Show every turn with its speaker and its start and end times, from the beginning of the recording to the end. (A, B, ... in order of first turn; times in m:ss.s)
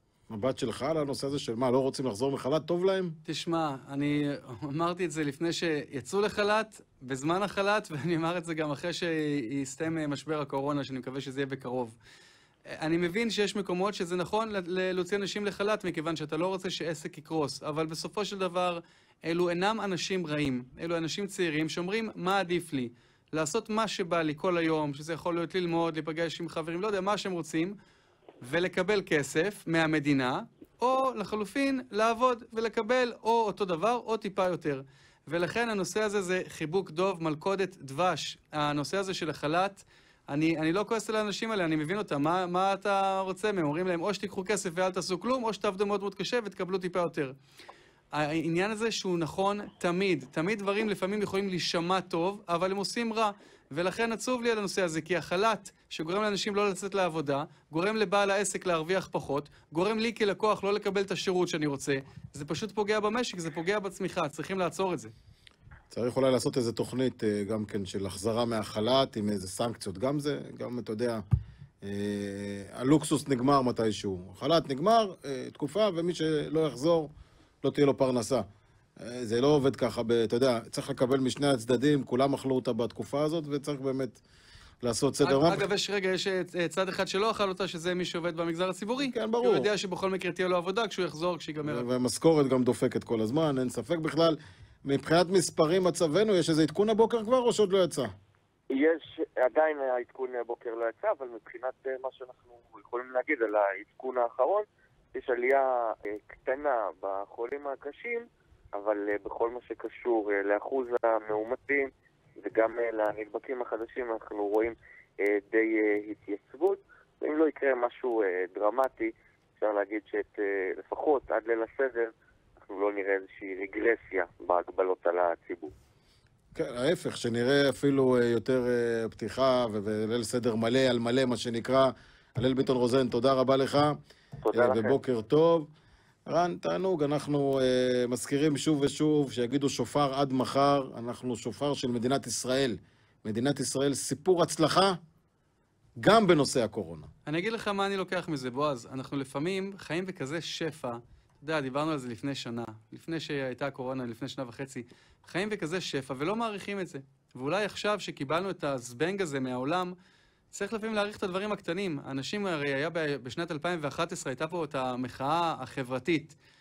0:00.3-0:03.2 A
0:03.3-0:12.0 B
0:12.7-0:27.8 B
0:28.4-0:47.3 B
0:48.1-1:05.1 B
1:05.9-1:11.2 A
1:11.8-1:17.1 A
1:17.6-1:18.4 A
1:19.0-1:24.2 A
1:24.8-1:25.6 A
1:25.2-1:31.8 B
1:29.0-1:29.7 A
1:31.6-1:38.1 A
1:38.7-2:05.7 C
2:06.5-2:14.0 A
2:14.4-2:15.0 C
2:14.5-2:15.7 A
2:16.3-2:25.0 A
2:26.0-2:27.1 A
2:27.2-2:39.9 B
2:40.5-2:46.3 B